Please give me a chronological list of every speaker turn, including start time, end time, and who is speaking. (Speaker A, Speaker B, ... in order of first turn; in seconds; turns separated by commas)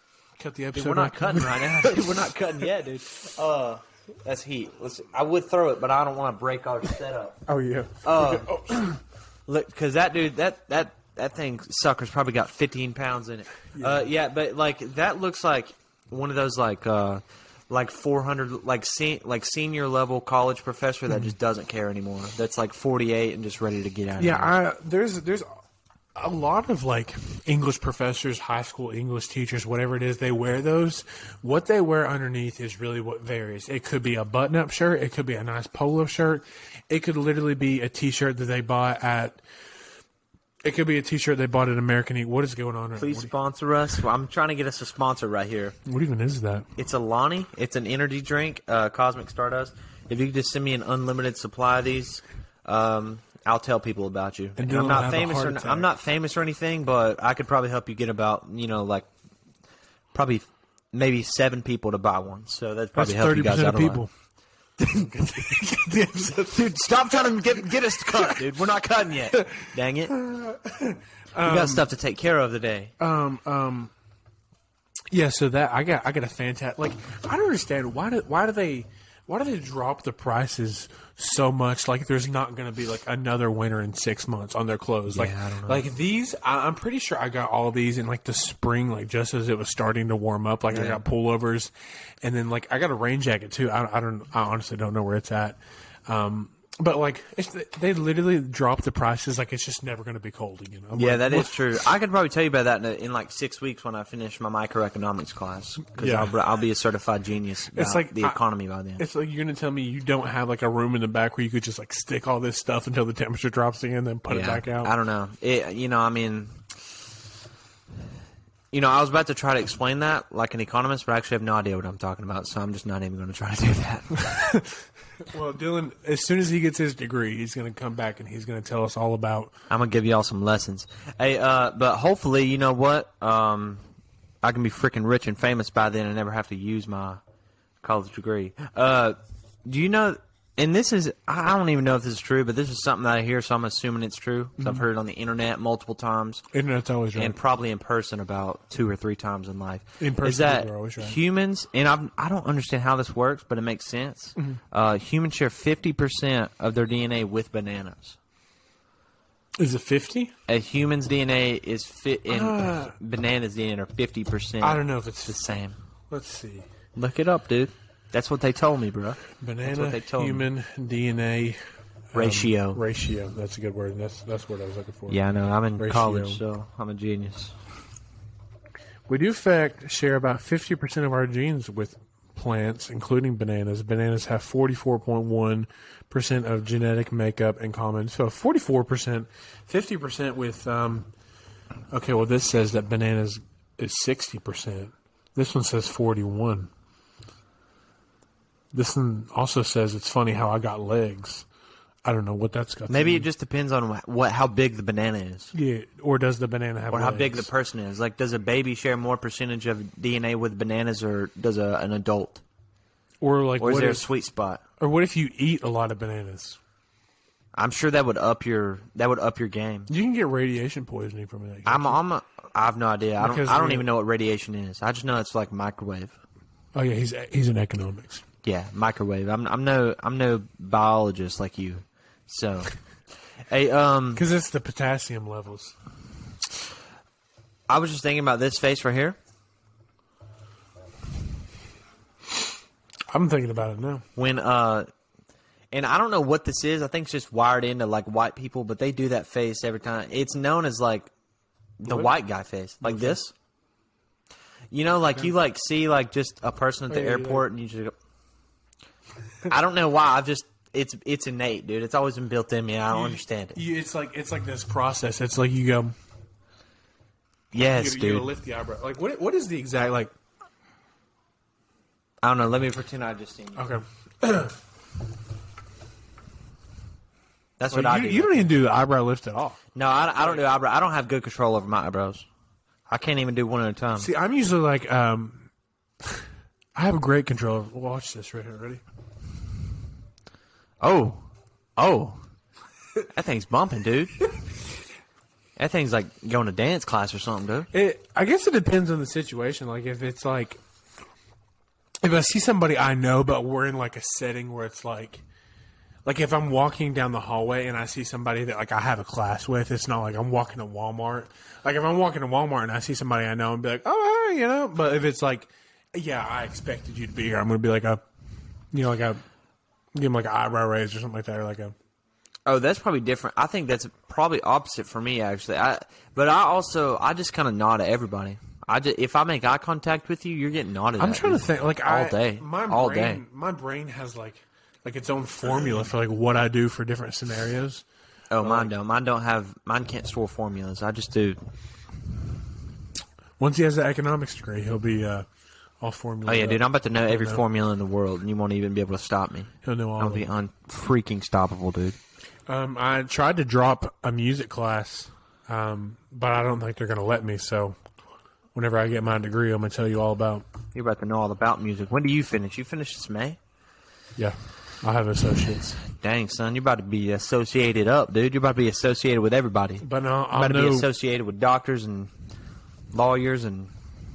Speaker A: 0.4-2.3, Speaker B: 0.7-7.4, Speaker A: 7.5-9.0, Speaker B: 8.0-8.6, Speaker B: 9.5-24.5, Speaker A: 13.7-14.1, Speaker A: 21.1-21.3, Speaker A: 24.2-25.5, Speaker A: 26.1-39.4, Speaker A: 40.6-43.3, Speaker B: 43.0-45.8, Speaker A: 45.9-46.7, Speaker B: 46.8-59.1, Speaker A: 54.6-55.9, Speaker B: 60.1-64.0, Speaker A: 62.9-64.1, Speaker A: 64.8-68.5, Speaker B: 66.5-70.1, Speaker A: 69.3-71.9, Speaker B: 71.4-72.9, Speaker A: 73.0-73.9, Speaker A: 75.1-101.8, Speaker B: 85.1-85.8, Speaker B: 90.7-91.0, Speaker B: 101.0-109.0, Speaker A: 106.0-106.4, Speaker A: 107.7-108.4, Speaker A: 109.0-114.9, Speaker B: 114.3-116.6, Speaker B: 118.7-124.3, Speaker A: 124.3-124.7, Speaker A: 125.2-129.5, Speaker B: 129.7-133.8, Speaker B: 134.4-137.2, Speaker B: 137.8-146.4, Speaker A: 144.6-144.8, Speaker A: 146.5-147.4, Speaker B: 147.1-158.2, Speaker A: 150.0-151.2, Speaker A: 159.6-160.3, Speaker B: 160.5-165.8, Speaker A: 162.3-162.9, Speaker A: 164.6-165.5, Speaker A: 166.1-166.7, Speaker B: 166.9-170.5, Speaker A: 169.4-171.6, Speaker A: 172.1-175.2, Speaker B: 172.1-172.8, Speaker B: 175.1-177.6, Speaker A: 175.8-176.4, Speaker A: 179.1-191.1, Speaker A: 191.9-196.7, Speaker A: 198.7-201.4, Speaker A: 202.0-203.3, Speaker B: 202.9-205.5, Speaker A: 205.5-207.5, Speaker B: 206.9-212.4, Speaker A: 213.2-214.0, Speaker B: 213.6-214.6, Speaker A: 214.8-216.6, Speaker B: 217.5-219.9, Speaker A: 219.9-222.0, Speaker B: 221.7-226.2, Speaker A: 223.2-223.9, Speaker A: 226.7-228.2, Speaker B: 228.4-232.7, Speaker B: 233.5-234.2, Speaker A: 234.1-235.8, Speaker B: 237.7-239.2, Speaker A: 243.1-244.1, Speaker B: 244.2-244.9, Speaker B: 245.7-251.1, Speaker B: 251.8-253.3, Speaker A: 251.8-252.1, Speaker A: 252.8-253.2, Speaker B: 254.7-257.9, Speaker A: 256.9-257.4, Speaker B: 259.5-263.6, Speaker A: 262.9-265.9, Speaker B: 267.5-268.3, Speaker A: 267.7-270.1, Speaker B: 272.2-273.6, Speaker A: 273.6-274.6, Speaker B: 277.6-278.5, Speaker A: 277.7-279.6, Speaker B: 279.7-282.2, Speaker B: 282.9-284.1, Speaker A: 284.0-285.5, Speaker A: 286.0-288.8, Speaker B: 290.8-292.2, Speaker B: 293.1-294.2, Speaker B: 295.6-297.7, Speaker A: 297.7-300.6, Speaker A: 302.0-305.2, Speaker A: 306.0-318.0, Speaker A: 318.7-319.2, Speaker A: 319.9-321.7, Speaker B: 322.4-333.2, Speaker A: 331.0-337.8, Speaker B: 338.3-341.4, Speaker A: 338.4-338.7, Speaker A: 343.4-345.3, Speaker A: 345.8-347.4, Speaker B: 346.2-352.0, Speaker A: 349.6-350.3, Speaker A: 352.5-357.8, Speaker A: 358.5-360.4, Speaker B: 360.7-363.4, Speaker A: 364.2-365.8, Speaker B: 365.8-372.1, Speaker A: 369.8-370.9, Speaker B: 372.9-373.7